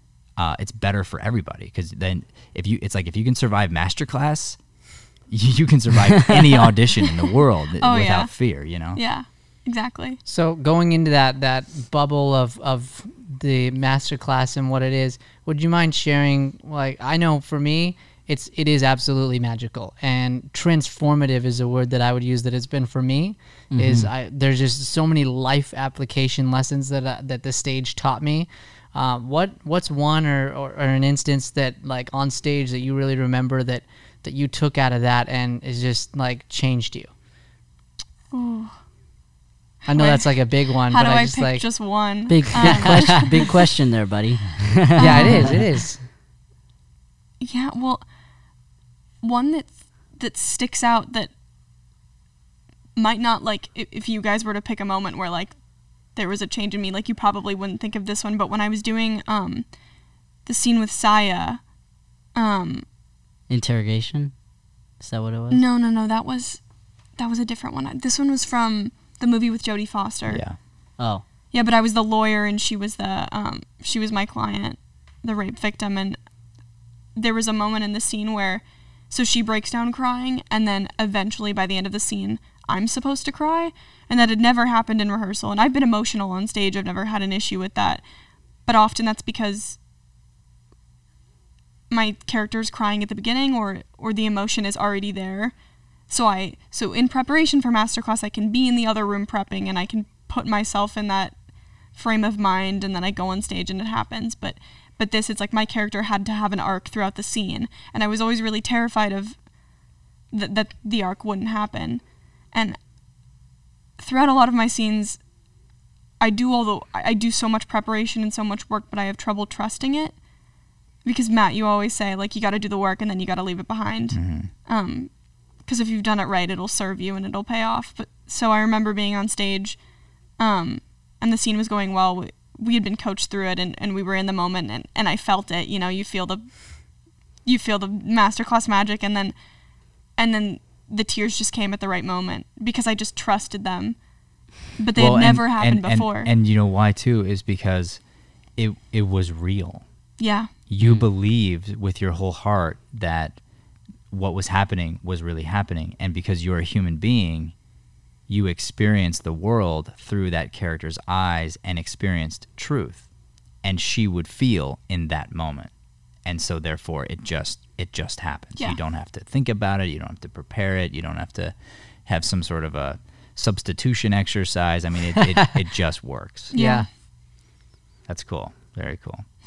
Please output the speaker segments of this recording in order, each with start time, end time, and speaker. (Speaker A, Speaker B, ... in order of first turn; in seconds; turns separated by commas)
Speaker A: 0.4-4.6, Speaker A: 5.3-9.0, Speaker B: 7.8-8.3, Speaker B: 8.9-10.2, Speaker C: 10.3-37.1, Speaker D: 23.7-24.1, Speaker B: 38.3-38.8, Speaker C: 39.9-41.6, Speaker B: 39.9-43.5, Speaker D: 42.3-45.5, Speaker C: 42.6-43.2, Speaker B: 45.0-45.6, Speaker C: 45.0-46.0, Speaker B: 47.4-48.0, Speaker B: 49.2-51.3, Speaker B: 53.0-55.6, Speaker B: 56.1-59.7, Speaker B: 60.5-61.7, Speaker B: 62.4-62.9, Speaker D: 63.5-64.3, Speaker D: 65.0-65.6, Speaker B: 65.5-66.6, Speaker B: 67.2-70.4, Speaker A: 70.3-70.6, Speaker B: 71.5-76.2, Speaker B: 77.2-88.0, Speaker B: 88.7-89.8, Speaker B: 91.9-95.5, Speaker B: 96.1-101.3, Speaker B: 102.0-109.4, Speaker B: 110.3-112.8, Speaker B: 114.0-115.2, Speaker B: 116.2-120.2, Speaker B: 121.0-125.1, Speaker A: 124.1-124.5, Speaker B: 125.7-129.8, Speaker B: 130.4-136.6, Speaker B: 137.4-139.3, Speaker B: 140.2-144.0, Speaker B: 144.8-146.3, Speaker A: 145.0-148.0, Speaker A: 148.6-149.8, Speaker B: 150.2-150.5, Speaker A: 150.7-153.4, Speaker D: 150.8-151.1, Speaker A: 154.1-157.5, Speaker A: 158.3-163.1, Speaker A: 163.6-165.7, Speaker A: 166.2-171.5, Speaker A: 172.1-176.6, Speaker B: 176.5-176.9, Speaker C: 176.5-176.9, Speaker A: 178.1-179.2